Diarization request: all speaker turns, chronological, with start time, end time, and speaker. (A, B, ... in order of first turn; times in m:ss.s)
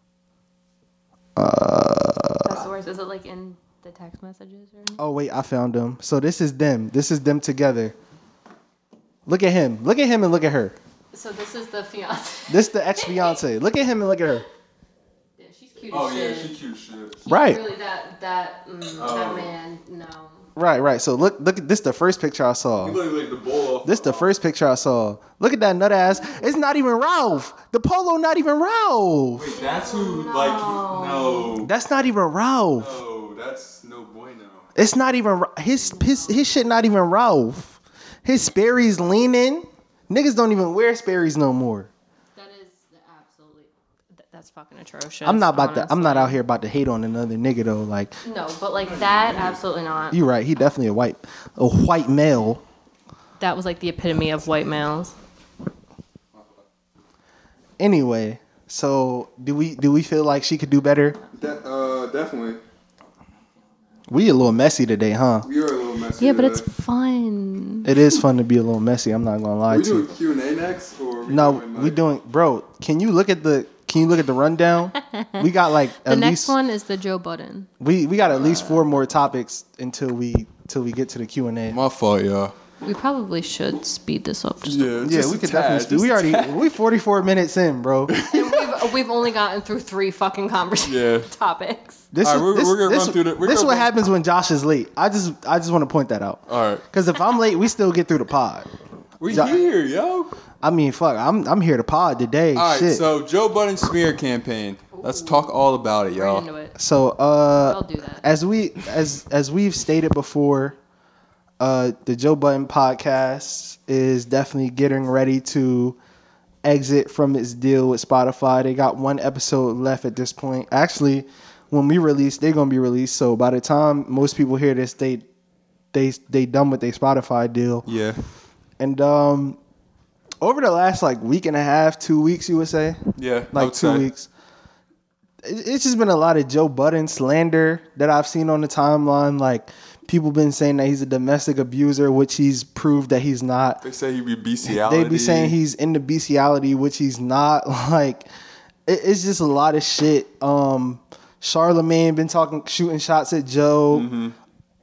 0:01.4-0:02.6 A
0:02.4-0:05.0 B
0:05.0-0:07.9 A
0:09.2-0:10.8 A
0:11.1-0:13.4 B
0:12.5-0:14.4 A
0:15.4-0:16.5 B
0:15.9-0:17.2 C
0:17.2-0:20.4 B
0:17.3-0:17.6 A
0:19.0-0:19.5 C
0:20.6-0:23.0 A
0:22.8-0:24.3 C
0:23.8-0:29.5 A
0:29.4-0:31.7 C
0:29.5-0:31.5 B
0:31.6-0:33.0 A
0:32.8-0:34.7 C
0:34.7-0:41.9 A
0:35.8-0:36.5 B
0:42.4-0:46.4 B
0:45.2-0:48.2 A
0:48.2-0:50.2 B
0:49.0-0:49.6 C
0:50.1-0:52.6 A
0:53.4-0:55.1 B
0:57.8-1:01.2 A
1:01.3-1:02.6 C
1:04.1-1:05.5 A
1:05.4-1:06.6 C
1:06.2-1:07.9 B
1:07.8-1:10.1 A
1:09.7-1:12.0 C
1:11.3-1:16.6 A
1:15.0-1:15.4 B
1:16.0-1:17.7 B
1:17.8-1:21.8 A
1:18.4-1:18.8 B
1:21.7-1:22.5 C
1:22.8-1:24.9 B
1:24.6-1:26.6 C
1:25.0-1:28.2 A
1:28.1-1:28.8 C
1:28.3-1:32.0 B
1:30.8-1:31.3 C
1:32.1-1:38.7 A
1:32.2-1:33.9 C
1:36.5-1:36.8 C
1:39.2-1:40.3 C
1:39.3-1:39.6 A
1:40.6-1:43.0 A
1:42.5-1:46.5 C
1:44.9-1:45.5 B
1:46.1-1:46.7 B
1:46.8-1:50.8 A
1:47.6-1:48.3 B
1:51.6-1:56.0 A
1:56.6-2:05.2 A
2:05.9-2:07.9 A
2:07.9-2:08.2 C
2:08.8-2:09.6 A
2:10.4-2:13.0 A
2:13.2-2:14.0 C
2:13.5-2:14.3 A
2:15.4-2:23.8 A
2:23.8-2:25.6 C
2:24.6-2:28.2 A
2:28.8-2:34.1 A
2:33.9-2:34.3 C